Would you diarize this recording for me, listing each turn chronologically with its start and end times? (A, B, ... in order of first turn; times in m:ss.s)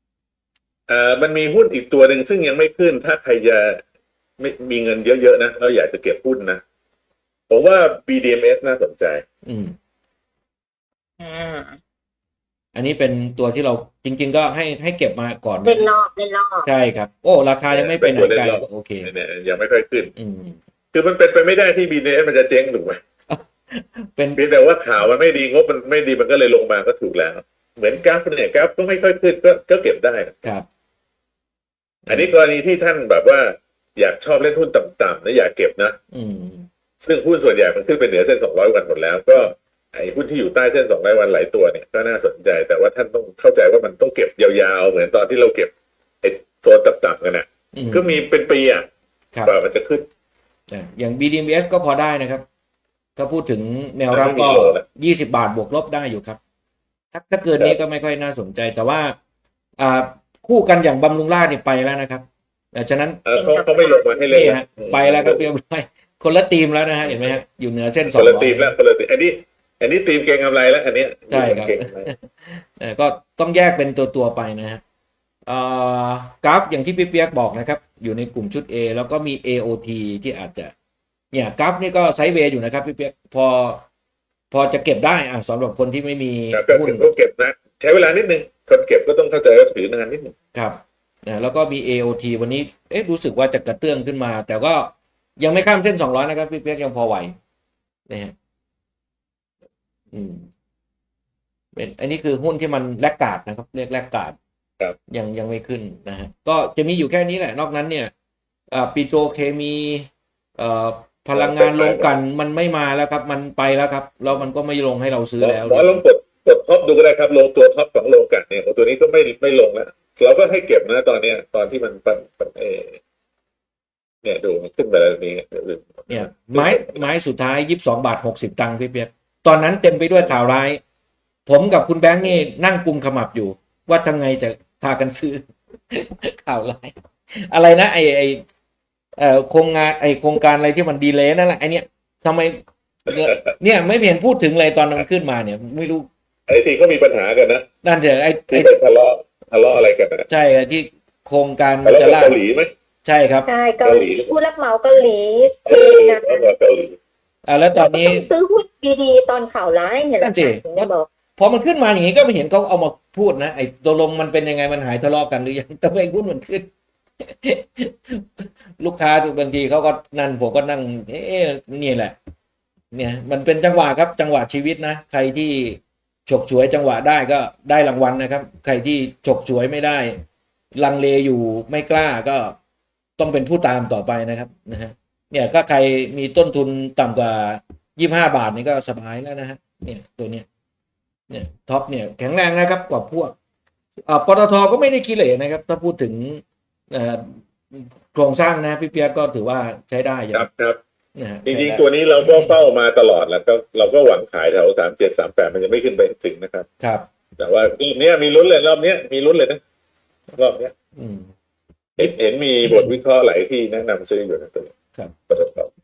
0:00.9-0:03.8 A
0:04.4-0:06.6 A
0:07.5-0:09.2 A
0:09.5-0:09.8 B
0:11.2-0:11.8 C
0:12.7-0:15.9 B
0:15.6-0:16.7 C
0:16.6-0:19.1 B
0:17.7-0:20.1 A
0:20.2-0:20.6 B
0:20.9-0:23.0 A
0:23.3-0:24.4 B
0:24.4-0:30.5 A
0:32.1-0:32.3 B
0:32.1-0:36.0 A
0:36.1-0:36.7 B
0:37.0-0:48.9 A
0:47.7-0:48.2 B
0:49.4-0:50.1 A
0:50.7-0:52.4 B
0:53.2-0:56.4 B
0:54.1-0:54.8 A
0:57.1-0:59.2 B
0:59.8-1:03.2 B
1:03.2-1:05.4 A
1:03.4-1:04.1 C
1:04.3-1:08.7 B
1:07.0-1:07.4 A
1:08.0-1:12.1 A
1:11.3-1:14.8 B
1:15.5-1:20.7 B
1:21.3-1:23.9 B
1:24.5-1:27.1 B
1:26.5-1:30.3 A
1:30.5-1:37.3 B
1:38.1-1:38.3 B
1:40.1-1:40.5 B
1:41.8-1:44.4 B
1:45.1-1:48.1 B
1:48.7-1:56.0 B
1:51.3-1:52.1 A
1:55.4-2:03.0 A
2:04.2-2:07.1 A
2:06.1-2:10.8 B
2:11.5-2:18.4 B
2:19.2-2:26.1 B
2:26.5-2:27.6 A
2:27.8-2:28.7 B
2:28.5-2:30.3 A
2:30.3-2:32.4 B
2:31.8-2:32.7 A
2:33.0-2:33.5 B
2:33.5-2:36.5 C
2:33.8-2:34.3 A
2:35.7-2:37.0 A
2:37.5-2:38.3 B
2:37.8-2:41.1 C
2:40.2-2:46.7 B
2:47.2-2:52.2 B
2:52.9-3:00.2 B
3:00.8-3:02.6 B
3:03.2-3:10.5 B
3:11.3-3:13.3 B
3:14.1-3:20.5 B
3:20.3-3:20.8 A
3:21.2-3:22.5 B
3:21.5-3:26.7 A
3:26.8-3:27.1 B
3:27.4-3:29.6 A
3:30.4-3:30.7 A
3:31.0-3:31.3 B
3:32.0-3:34.7 A
3:32.6-3:32.9 B
3:35.3-3:35.7 A